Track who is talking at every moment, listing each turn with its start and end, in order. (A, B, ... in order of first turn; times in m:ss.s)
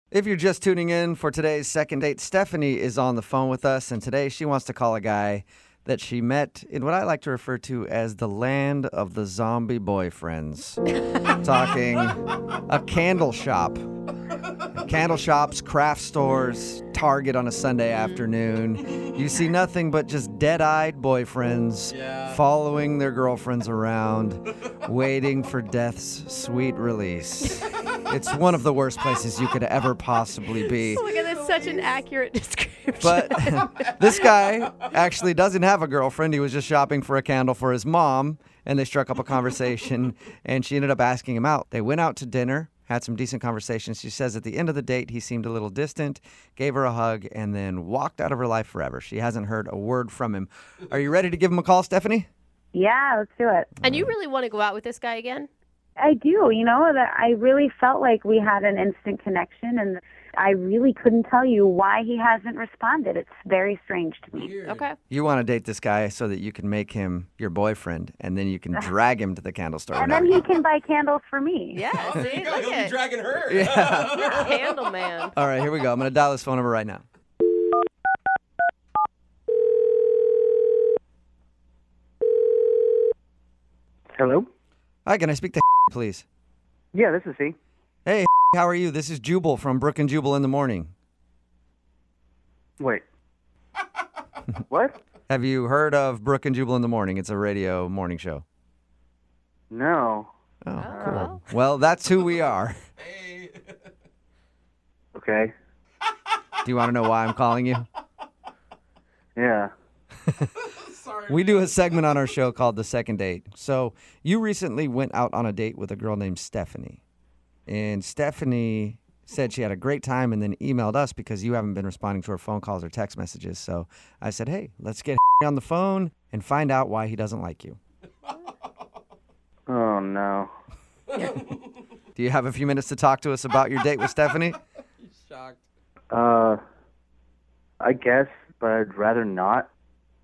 0:00.1-0:10.8 A
0:11.4-0:13.9 A
0:14.8-0:31.0 A
0:21.9-0:22.4 B
0:30.8-0:34.3 C
0:31.5-0:31.9 B
0:33.0-0:52.3 A
0:52.7-0:53.7 D
0:53.8-0:55.5 C
0:53.8-0:54.1 A
0:56.0-1:04.5 D
1:04.3-1:04.8 B
1:04.7-1:05.0 C
1:05.1-1:10.4 A
1:10.0-1:11.8 D
1:11.7-1:13.0 C
1:12.1-1:14.6 B
1:13.4-1:14.4 A
1:14.2-1:15.4 C
1:15.4-1:17.0 A
1:24.1-1:24.5 E
1:25.0-1:26.2 A
1:26.9-1:27.6 E
1:28.0-1:30.9 A
1:34.7-1:35.0 E
1:35.3-1:38.4 A
1:39.7-1:40.3 E
1:40.6-1:42.8 A
1:40.8-1:41.4 C
1:43.1-1:43.6 B
1:45.1-1:45.5 E
1:46.6-1:47.9 A
1:49.4-1:49.7 E
1:50.8-1:51.7 B
1:51.2-1:57.0 A
1:57.7-2:07.8 A
2:09.7-2:10.5 E
2:12.2-2:14.6 A
2:15.0-2:15.6 B
2:16.1-2:16.6 E
2:17.8-2:19.7 E